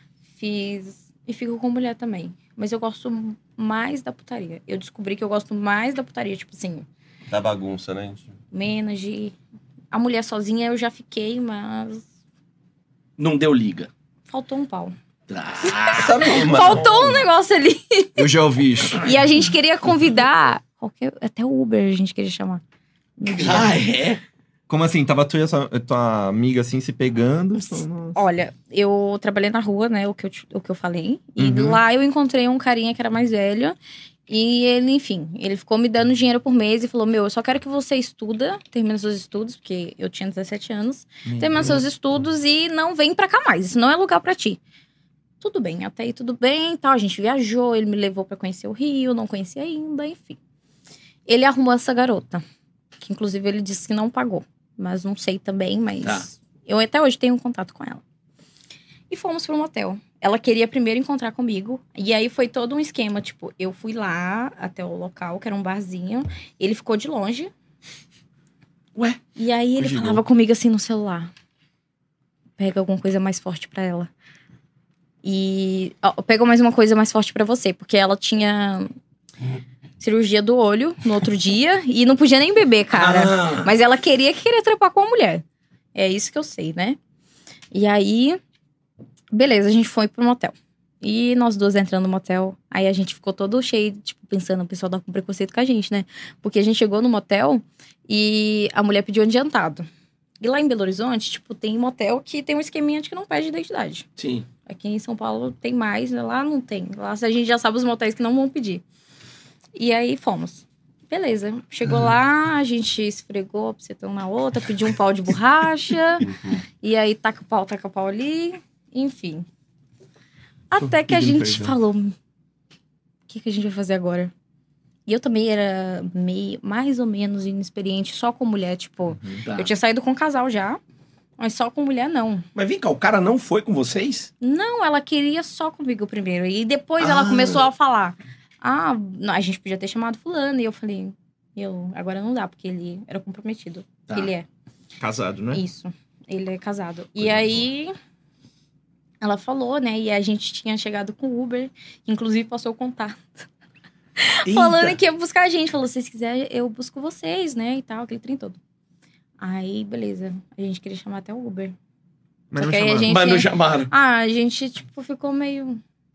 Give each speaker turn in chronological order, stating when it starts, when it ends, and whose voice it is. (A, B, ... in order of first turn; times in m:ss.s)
0:00.4-0:06.9 A
0:07.3-0:08.3 B
0:08.5-0:09.4 A
0:09.9-0:12.0 A
0:13.2-0:13.9 C
0:14.3-0:15.0 A
0:15.3-0:16.4 C
0:15.6-0:18.3 A
0:15.9-0:17.3 B
0:18.2-0:19.1 D
0:18.9-0:22.6 A
0:23.2-0:23.8 A
0:23.3-0:24.2 C
0:24.7-0:28.2 D
0:27.7-0:33.8 A
0:31.4-0:31.8 D
0:34.3-0:44.6 A
0:41.2-0:41.8 D
0:45.4-0:50.4 A
0:51.3-0:52.4 A
0:53.0-0:58.0 A
0:59.1-1:07.5 A
1:09.4-1:11.3 A
1:09.8-1:10.2 C
1:12.6-1:14.1 A
1:15.2-1:18.9 A
1:20.0-1:25.4 A
1:22.9-1:23.7 C
1:26.0-1:27.0 A
1:27.7-1:28.4 A
1:29.3-1:39.9 A
1:40.4-1:44.1 A
1:44.2-1:44.5 C
1:44.7-1:48.8 A
1:49.8-1:56.3 A
1:56.2-1:56.6 B
1:56.8-1:59.5 A
2:00.7-2:02.2 A
2:01.1-2:01.7 D
2:03.3-2:04.3 A
2:05.1-2:10.8 A
2:09.4-2:09.7 C
2:11.4-2:12.4 A
2:12.6-2:14.3 C
2:14.4-2:24.5 A
2:17.0-2:17.6 C
2:25.0-2:25.6 D
2:25.5-2:27.9 A
2:29.2-2:33.5 A
2:34.2-2:38.6 A
2:34.4-2:35.0 C
2:39.4-2:41.8 A
2:42.5-2:43.1 D
2:42.6-2:45.8 A
2:43.1-2:43.9 C